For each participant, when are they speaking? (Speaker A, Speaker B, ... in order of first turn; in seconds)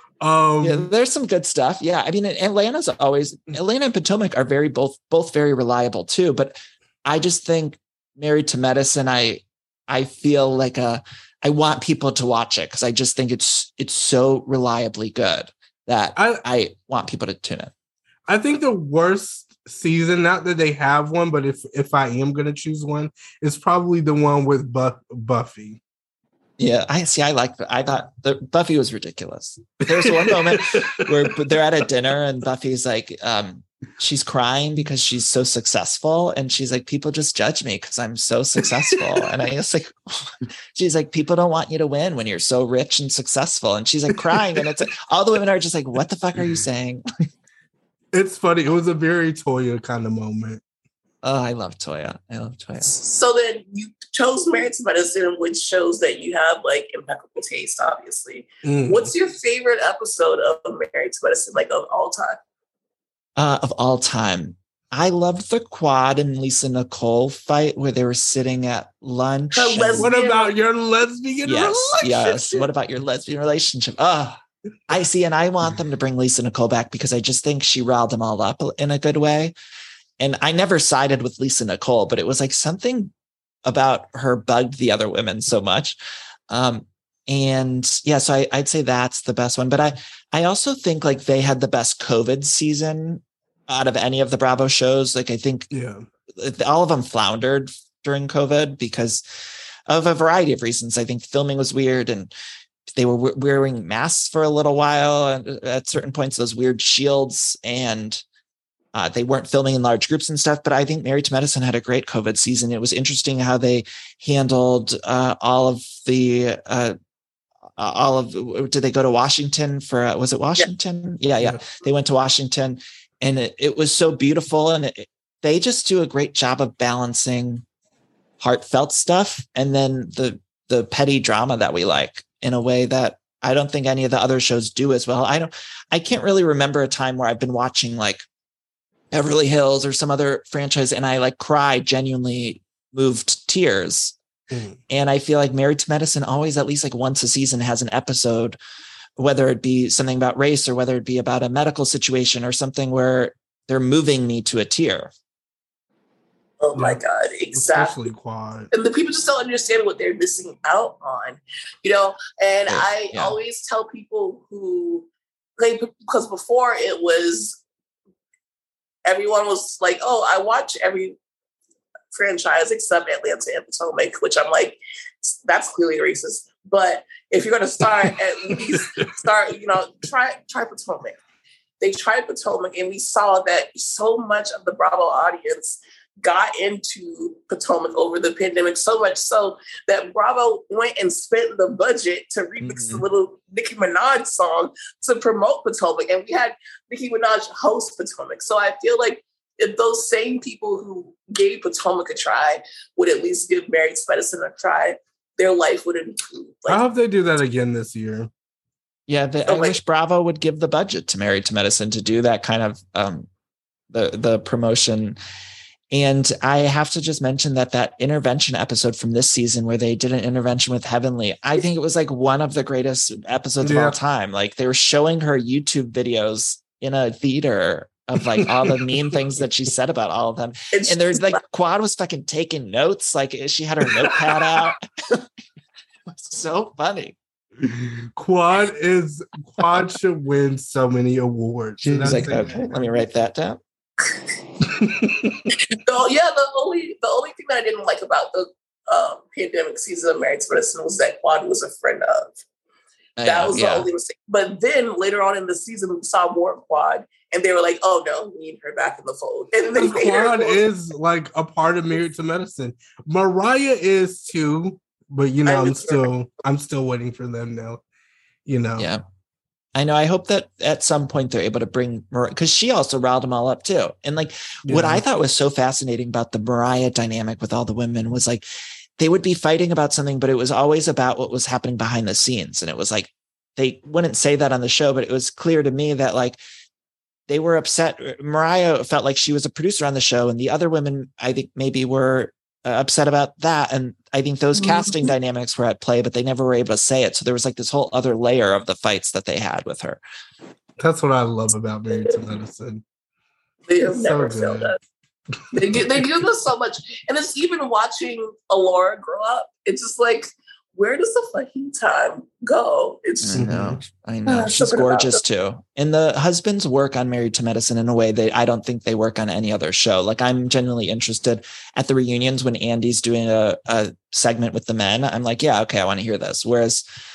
Speaker A: 0.2-0.9, 16.2-16.4, 18.3-25.8, 29.9-31.4, 38.8-39.2, 48.1-50.6, 58.6-59.1, 70.0-72.6, 95.7-96.0, 144.5-144.8, 157.5-158.7, 178.1-179.1, 206.7-208.3, 223.6-224.0, 228.4-228.9, 237.7-243.0, 244.7-245.4, 259.8-267.8, 268.5-268.9, 274.7-275.0, 300.8-302.8, 303.9-304.8, 305.7-306.0, 313.4-313.8
Speaker B: 0.6-17.7, 26.6-47.0, 51.2-52.9, 63.4-70.1, 71.4-79.5, 80.2-83.1, 83.7-86.0, 86.5-95.7, 96.3-99.2, 99.9-102.3, 102.9-108.2, 108.9-117.0, 117.8-127.7, 128.4-138.3, 139.1-144.2, 144.9-148.6, 149.2-155.1, 162.7-163.4, 192.6-193.0, 209.1-213.3, 213.9-215.2, 215.9-235.3, 236.1-237.2, 241.8-243.6, 253.2-253.9, 268.8-269.0, 269.8-278.4, 279.0-286.4, 287.3-300.0, 313.2-326.8
Speaker C: 52.8-62.4, 69.5-70.5, 156.6-157.9, 158.7-167.6, 169.1-171.2, 172.1-181.2, 181.8-206.8, 209.5-209.8, 230.7-231.4, 245.8-252.4, 253.2-260.6, 265.4-266.1, 294.6-295.1, 303.7-304.8, 305.5-313.5, 314.3-315.2